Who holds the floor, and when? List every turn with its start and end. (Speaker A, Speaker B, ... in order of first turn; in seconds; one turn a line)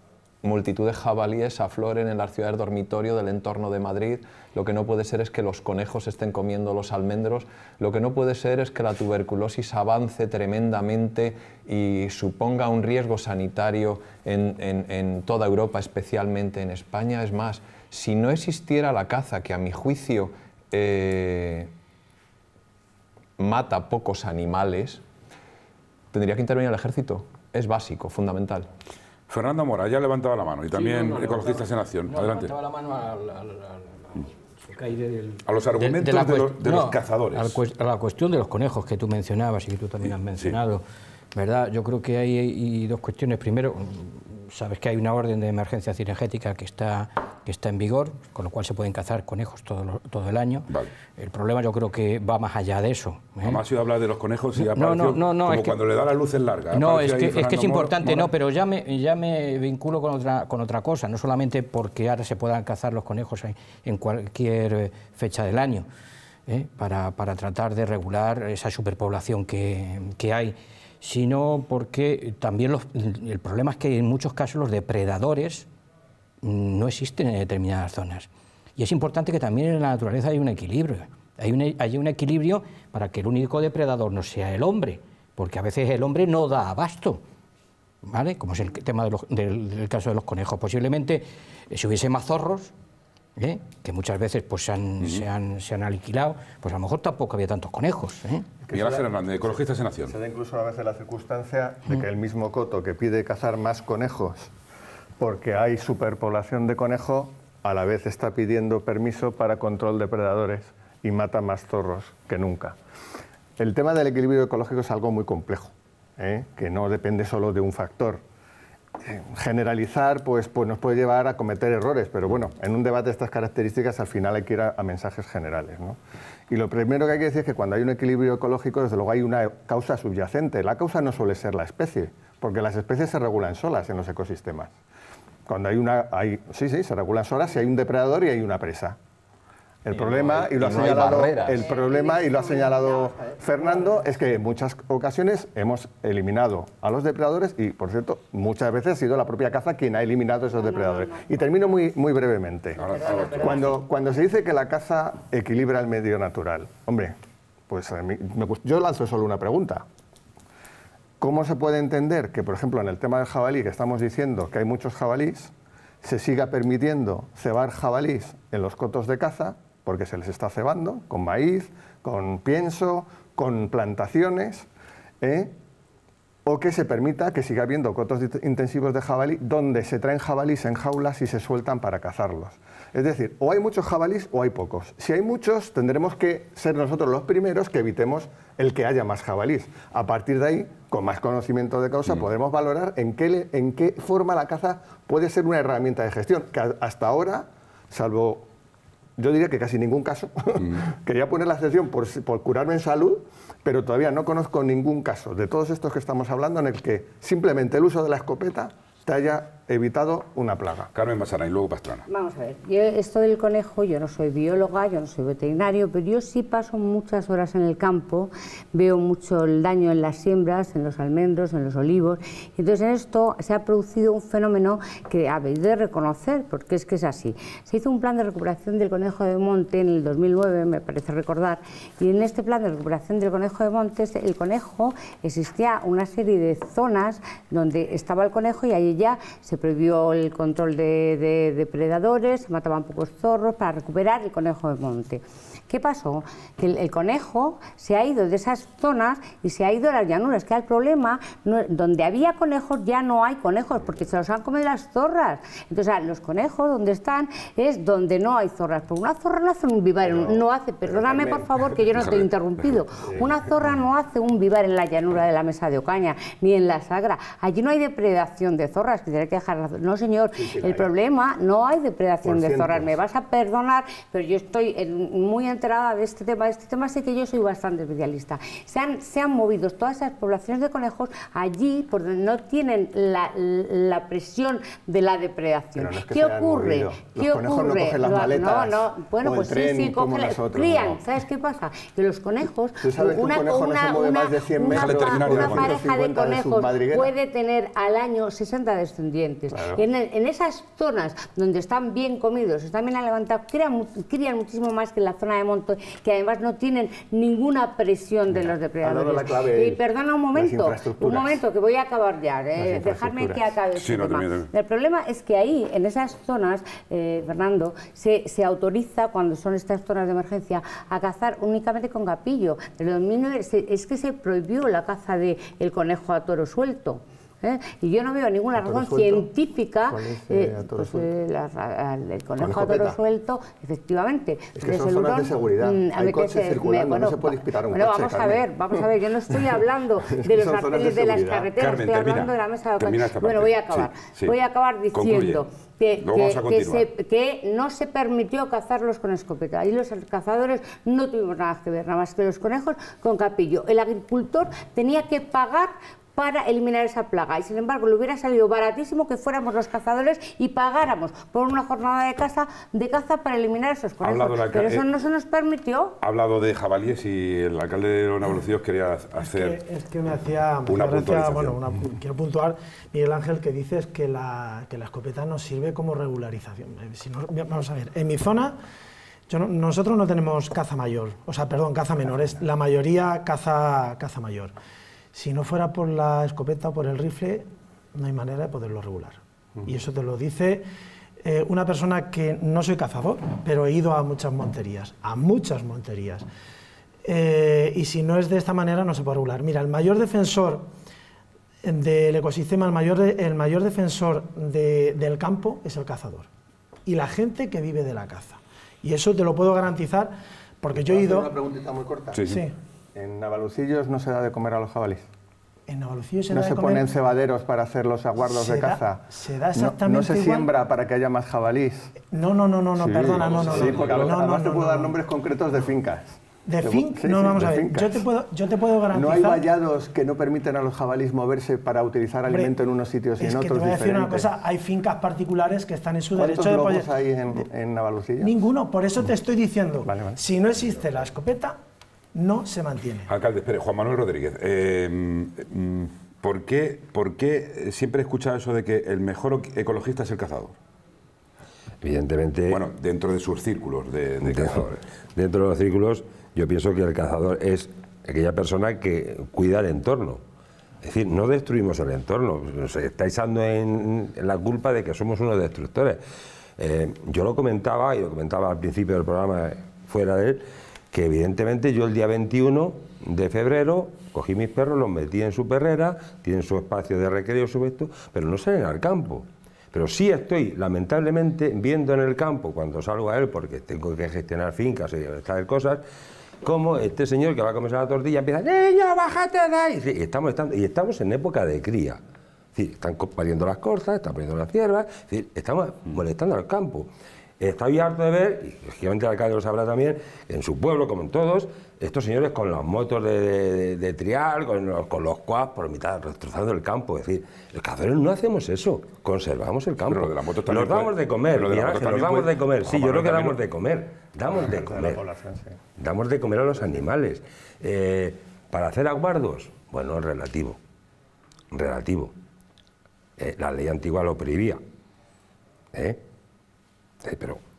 Speaker A: 0.4-21.7
Speaker A: 23.4-25.0
Speaker A: 26.1-28.7
Speaker B: 29.3-32.5
Speaker C: 30.7-40.8
Speaker B: 35.5-37.6
Speaker C: 41.3-53.6
Speaker B: 53.4-58.3
Speaker C: 54.6-55.8
Speaker C: 56.7-65.9
Speaker C: 66.5-75.7
Speaker C: 76.4-87.2
Speaker C: 88.0-92.7
Speaker C: 93.4-98.5
Speaker D: 98.6-104.5
Speaker B: 98.7-100.1
Speaker D: 105.2-112.8
Speaker D: 113.6-118.2
Speaker D: 119.0-126.0
Speaker D: 126.5-134.7
Speaker D: 135.5-139.0
Speaker D: 139.8-157.2
Speaker A: 139.9-141.7
Speaker E: 141.6-143.9
Speaker E: 150.6-151.2
Speaker B: 152.8-153.7
Speaker E: 152.8-153.8
Speaker D: 157.7-159.8
Speaker D: 161.2-165.5
Speaker D: 166.0-174.7
Speaker D: 175.2-175.5
Speaker D: 176.4-198.5
Speaker D: 199.2-210.9
Speaker B: 210.9-212.0
Speaker E: 212.1-365.9
Speaker D: 260.0-261.7
Speaker D: 263.0-263.3
Speaker D: 270.3-270.9
Speaker D: 272.2-272.9
Speaker D: 285.8-291.0
Speaker D: 292.8-297.1
Speaker B: 294.7-295.8
Speaker D: 299.5-299.8
Speaker D: 308.3-309.8
Speaker D: 310.3-311.4
Speaker D: 312.6-313.5
Speaker B: 313.8-314.5
Speaker D: 328.6-329.3
Speaker D: 329.9-331.1
Speaker D: 332.4-333.0
Speaker D: 334.6-339.4
Speaker D: 340.1-341.5
Speaker B: 341.6-344.3
Speaker B: 344.9-345.4
Speaker B: 346.0-346.9
Speaker B: 364.0-364.8
Speaker B: 366.0-369.6
Speaker F: 369.2-378.6
Speaker B: 370.6-371.6
Speaker F: 379.3-384.5
Speaker F: 385.1-390.6
Speaker F: 391.2-396.2
Speaker F: 397.0-400.7
Speaker F: 401.6-406.3
Speaker F: 406.9-411.3
Speaker D: 410.7-412.2
Speaker B: 412.1-412.4
Speaker F: 412.2-412.5
Speaker D: 412.9-415.1
Speaker F: 415.7-416.9
Speaker D: 416.3-421.9
Speaker F: 418.2-420.5
Speaker F: 422.1-425.0
Speaker D: 422.8-428.0
Speaker F: 426.4-429.5
Speaker D: 428.9-434.3
Speaker F: 433.2-436.9
Speaker D: 436.2-438.4
Speaker F: 438.2-441.6
Speaker D: 439.9-440.2
Speaker F: 442.1-443.1
Speaker B: 443.1-450.5
Speaker G: 451.8-452.6
Speaker B: 452.5-454.8
Speaker G: 454.2-460.2
Speaker G: 460.8-466.0
Speaker G: 466.6-485.8
Speaker G: 486.4-492.0
Speaker G: 492.5-515.0
Speaker B: 509.8-513.4
Speaker D: 514.3-515.6
Speaker G: 515.8-520.6
Speaker G: 521.5-522.1
Speaker G: 523.2-524.6
Speaker G: 525.7-526.0
Speaker G: 527.0-527.4